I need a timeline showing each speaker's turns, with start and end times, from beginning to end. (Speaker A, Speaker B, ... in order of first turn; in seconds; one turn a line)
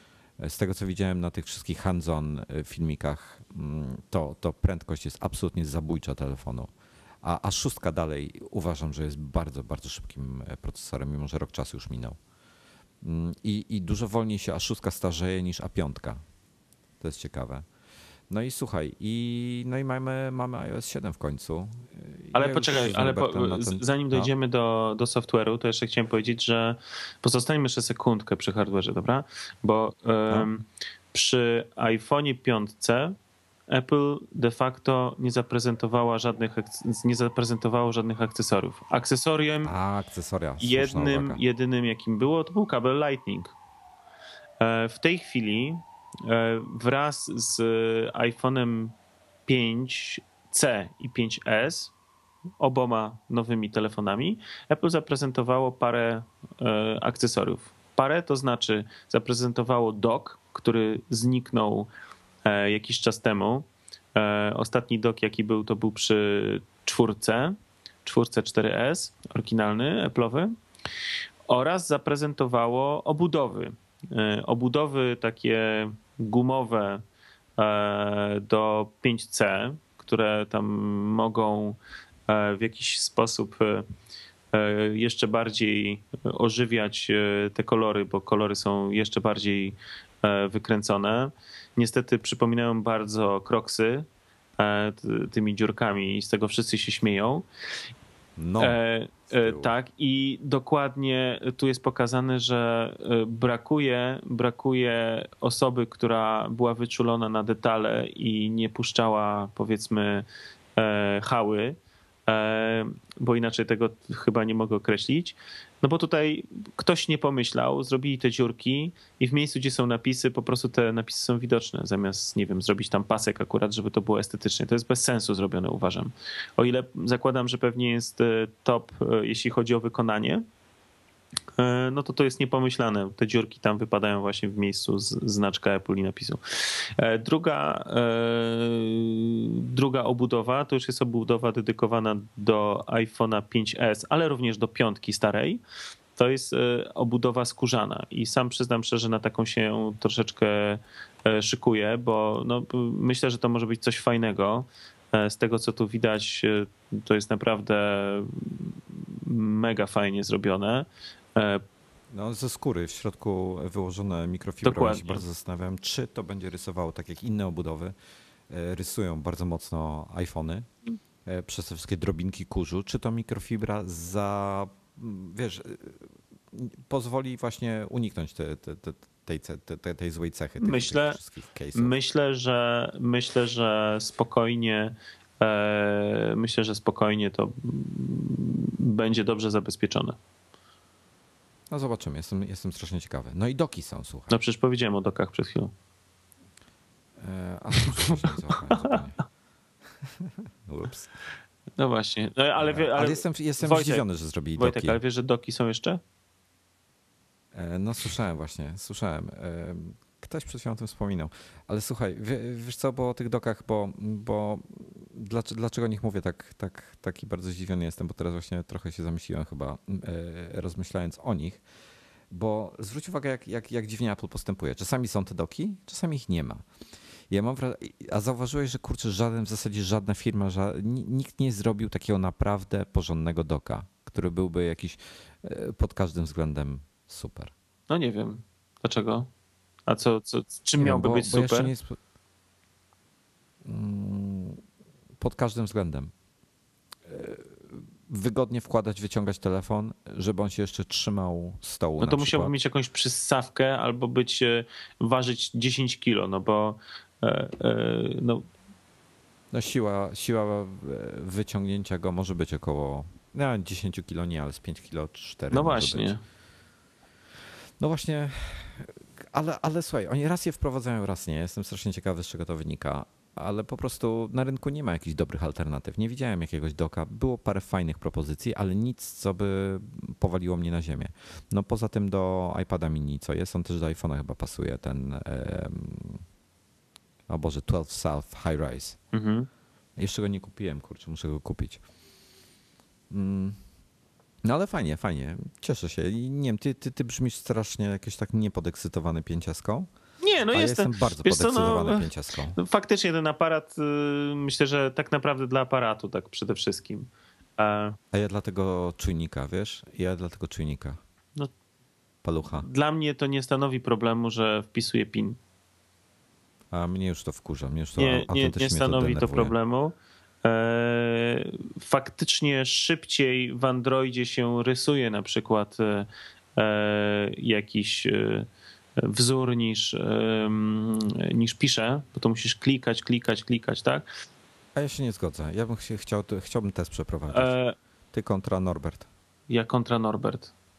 Speaker A: 0.4-6.7
Speaker A: 7.2-12.2
Speaker A: 13.0-16.2
Speaker A: 17.0-17.6
Speaker A: 18.3-24.3
Speaker B: 22.3-33.1
Speaker B: 33.7-39.7
Speaker A: 39.6-41.4
Speaker B: 40.6-43.5
Speaker B: 44.6-48.9
Speaker B: 49.5-51.9
Speaker B: 52.6-61.9
Speaker B: 62.4-70.5
Speaker B: 71.5-77.0
Speaker B: 77.6-83.8
Speaker B: 84.5-94.0
Speaker B: 94.6-97.4
Speaker A: 98.4-98.8
Speaker B: 98.6-110.2
Speaker A: 99.3-99.7
Speaker B: 110.8-130.4
Speaker B: 131.6-145.6
Speaker B: 146.2-161.6
Speaker A: 162.1-167.9
Speaker B: 164.6-165.2
Speaker A: 168.5-170.7
Speaker A: 171.2-181.9
Speaker B: 180.6-181.2
Speaker B: 181.7-190.2
Speaker A: 191.7-194.3
Speaker B: 194.3-195.7
Speaker A: 197.2-199.2
Speaker B: 198.0-198.9
Speaker A: 200.0-201.1
Speaker B: 201.8-204.0
Speaker A: 202.6-205.0
Speaker B: 204.6-206.0
Speaker A: 207.5-221.6
Speaker A: 222.3-226.7
Speaker A: 227.3-237.5
Speaker B: 237.9-239.3
Speaker B: 239.9-241.7
Speaker A: 240.8-242.0
Speaker A: 243.6-244.6
Speaker A: 245.2-246.1
Speaker A: 247.1-252.5
Speaker B: 252.0-258.4
Speaker A: 259.5-266.1
Speaker B: 265.5-266.2
Speaker A: 267.8-286.2
Speaker A: 287.3-289.0
Speaker B: 289.1-289.5
Speaker A: 290.0-291.8
Speaker A: 293.1-293.6
Speaker A: 294.4-299.9
Speaker B: 300.2-308.0
Speaker A: 300.5-302.6
Speaker A: 308.1-311.0
Speaker A: 312.2-312.6
Speaker B: 312.6-315.4
Speaker A: 316.7-319.5
Speaker B: 318.0-328.5
Speaker B: 329.0-334.1
Speaker A: 334.8-337.5
Speaker B: 337.3-337.8
Speaker A: 338.1-339.1
Speaker B: 339.5-340.5